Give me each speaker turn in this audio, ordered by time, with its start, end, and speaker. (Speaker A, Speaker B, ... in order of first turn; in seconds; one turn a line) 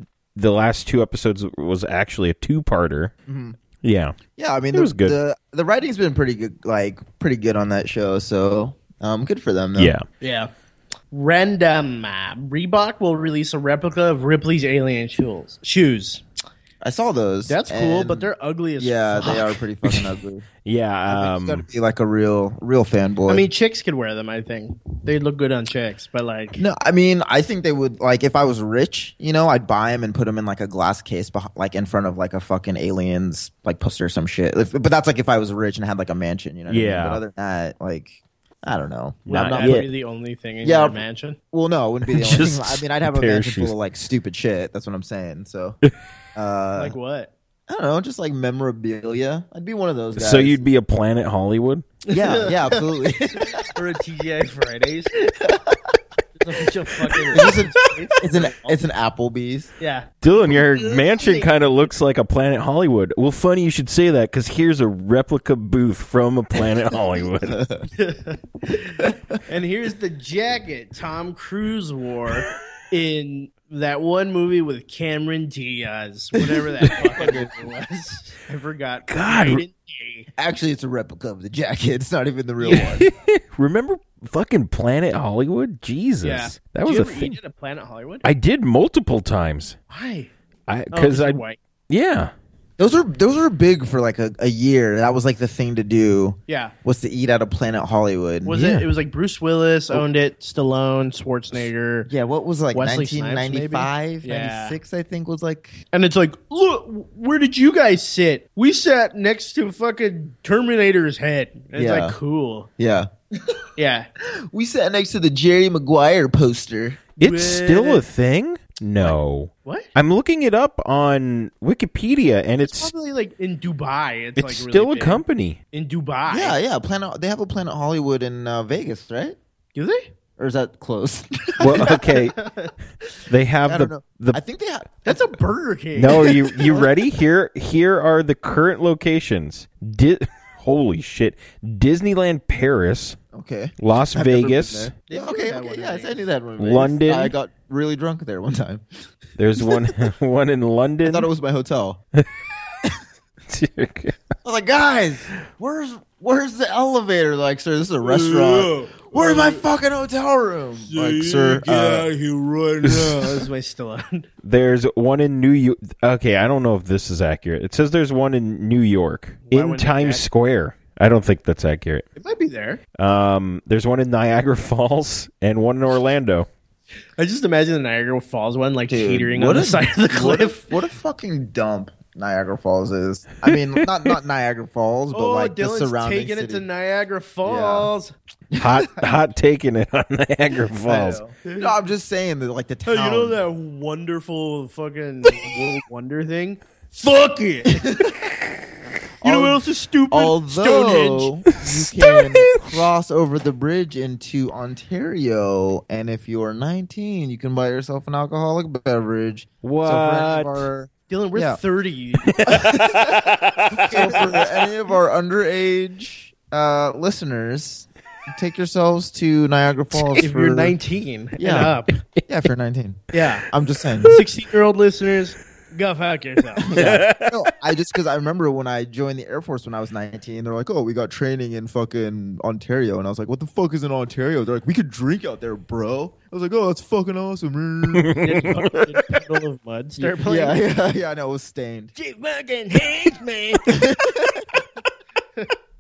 Speaker A: 0.3-3.1
Speaker B: 3.3-3.6
Speaker A: 3.8-4.2
Speaker B: 4.4-9.9
Speaker A: 4.7-5.2
Speaker A: 9.8-10.0
Speaker C: 10.2-10.5
Speaker C: 11.1-16.2
Speaker B: 16.8-20.5
Speaker C: 17.5-19.5
Speaker A: 19.8-20.1
Speaker A: 20.6-21.6
Speaker B: 21.1-23.5
Speaker C: 23.3-26.6
Speaker B: 26.6-39.8
Speaker A: 36.7-37.2
Speaker C: 39.2-41.4
Speaker A: 39.4-39.9
Speaker B: 40.6-45.8
Speaker A: 42.1-43.7
Speaker B: 46.4-46.9
Speaker C: 46.7-47.3
Speaker B: 47.7-50.6
Speaker A: 50.1-51.9
Speaker C: 52.0-55.1
Speaker B: 52.1-53.7
Speaker B: 55.2-56.0
Speaker C: 56.4-58.8
Speaker B: 57.3-59.7
Speaker C: 59.8-61.5
Speaker A: 60.2-67.6
Speaker B: 67.2-67.9
Speaker C: 67.9-80.3
Speaker B: 77.0-77.7
Speaker A: 79.1-79.6
Speaker B: 80.4-83.0
Speaker C: 82.6-83.0
Speaker A: 82.7-87.4
Speaker C: 86.2-88.2
Speaker A: 88.2-89.8
Speaker C: 89.9-90.3
Speaker A: 90.7-92.3
Speaker C: 90.9-91.6
Speaker B: 92.8-98.6
Speaker C: 96.5-96.7
Speaker C: 98.4-102.1
Speaker A: 98.5-98.9
Speaker B: 102.1-105.8
Speaker C: 102.7-104.8
Speaker C: 105.9-112.7
Speaker B: 111.7-112.2
Speaker B: 112.8-113.1
Speaker C: 113.8-114.1
Speaker B: 114.2-117.0
Speaker A: 117.2-122.9
Speaker C: 117.2-118.0
Speaker C: 119.0-119.9
Speaker C: 122.6-126.5
Speaker A: 124.4-125.6
Speaker B: 126.3-129.4
Speaker C: 129.7-130.1
Speaker B: 130.4-132.2
Speaker A: 131.6-132.4
Speaker C: 131.9-132.7
Speaker A: 133.3-134.4
Speaker B: 133.6-135.3
Speaker C: 135.0-136.8
Speaker A: 135.9-143.2
Speaker B: 136.1-136.9
Speaker B: 143.3-148.8
Speaker A: 143.8-144.9
Speaker C: 145.1-146.2
Speaker A: 146.6-147.3
Speaker A: 149.4-151.3
Speaker B: 149.6-149.9
Speaker B: 151.0-152.0
Speaker A: 153.5-154.2
Speaker B: 154.4-162.1
Speaker C: 158.0-159.6
Speaker C: 160.8-164.3
Speaker A: 162.8-163.4
Speaker A: 164.4-172.1
Speaker C: 169.4-170.2
Speaker C: 172.2-172.8
Speaker A: 173.0-176.5
Speaker C: 177.2-180.7
Speaker B: 178.9-186.6
Speaker C: 185.1-188.1
Speaker B: 187.4-187.9
Speaker B: 188.5-189.1
Speaker A: 188.6-191.2
Speaker B: 190.8-193.4
Speaker C: 191.4-191.8
Speaker C: 192.9-198.1
Speaker B: 197.7-198.3
Speaker B: 199.2-211.6
Speaker C: 199.2-201.4
Speaker A: 201.5-202.8
Speaker A: 209.6-210.7
Speaker C: 211.1-212.9
Speaker A: 212.2-214.5
Speaker B: 212.5-220.8
Speaker C: 213.7-214.4
Speaker C: 220.2-222.0
Speaker B: 221.4-224.2
Speaker C: 223.1-223.5
Speaker C: 224.1-227.0
Speaker B: 226.6-238.2
Speaker A: 226.7-227.5
Speaker A: 237.9-238.5
Speaker C: 238.2-240.6
Speaker B: 240.0-241.9
Speaker C: 241.9-243.7
Speaker B: 243.7-244.6